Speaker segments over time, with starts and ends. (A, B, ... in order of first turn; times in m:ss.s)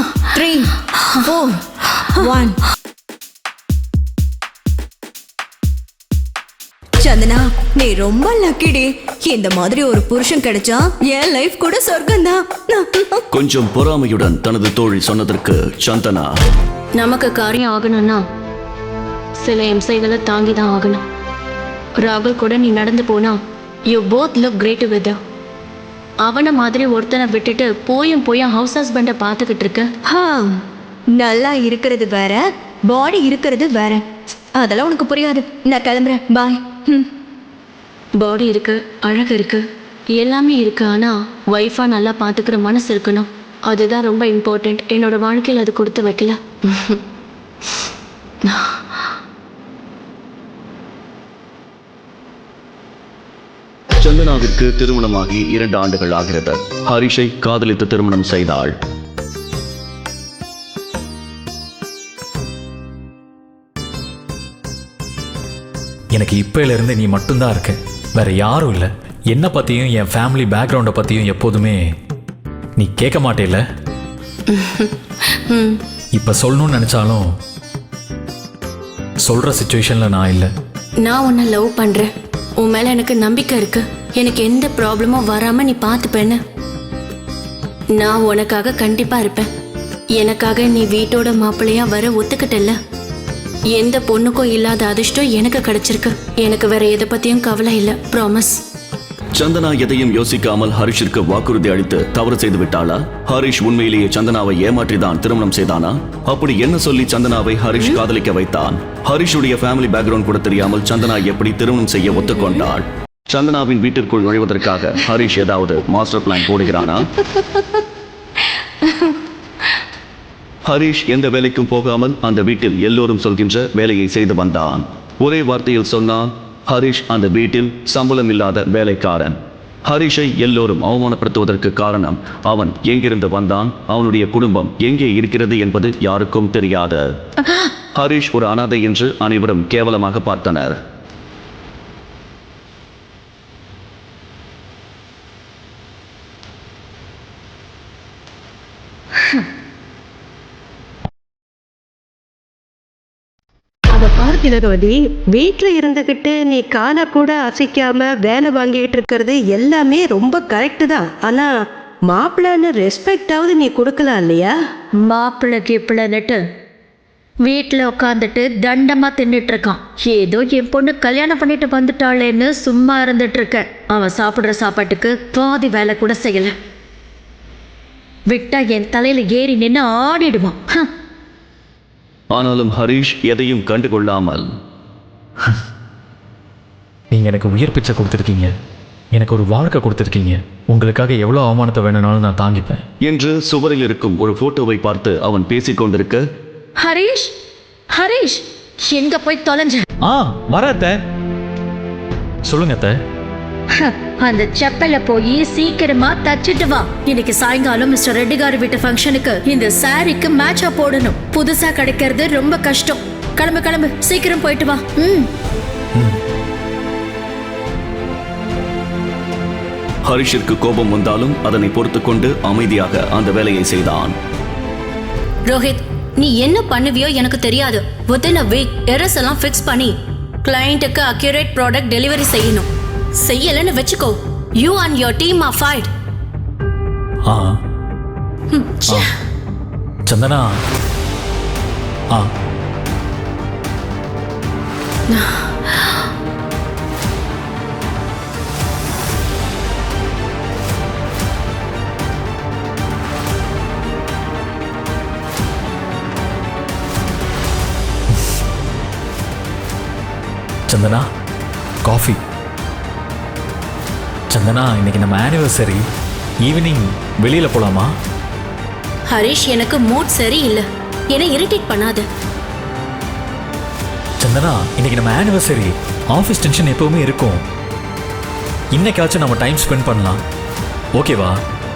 0:00.2-0:02.6 A
0:07.0-0:13.2 A
0:13.3-0:16.3 B
0:17.0-0:18.2 C
0:19.4-0:21.0 C
0:22.0-0:25.2 C
0:26.2-0:29.9 C
0:30.0-0:30.6 A
0:31.1-0:37.1 A
0:38.2-0:39.6 C
0:40.2-0:47.0 C
0:54.0-0:58.8 B
1:06.1-1:11.8 D
1:12.8-1:13.6 D
1:14.5-1:14.9 C
1:15.5-1:15.8 C
1:16.1-1:17.2 D
1:19.2-1:20.5 D
1:21.0-1:26.4 C
1:28.0-1:29.5 C
1:30.2-1:32.8 C
1:33.7-1:38.6 C
1:39.3-1:57.1 B
2:00.6-2:17.0 B
2:17.9-2:20.8 B
2:33.9-2:41.5 E
2:42.0-2:44.5 E
2:45.0-2:46.4 F
2:47.4-2:56.5 F
2:58.3-3:00.8 F
3:02.3-3:04.5 B
3:07.1-3:08.5 D
3:09.1-3:12.8 D
3:13.0-3:16.2 B
3:16.8-3:17.3 F
3:17.9-3:19.8 F
3:20.0-3:21.0 D
3:22.4-3:22.9 D
3:23.8-3:35.3 F
3:40.0-3:44.2 B
3:45.5-3:55.9 C
3:57.3-3:57.6 D
3:58.5-3:58.9 C
4:00.0-4:00.5 D
4:05.1-4:05.7 C
4:20.7-4:21.0 D
4:21.8-4:22.2 D
4:24.3-4:25.8 D
4:26.4-4:27.9 D
4:29.1-4:32.0 C
4:34.2-4:37.4 D
4:38.7-4:40.2 D
4:40.9-4:41.4 D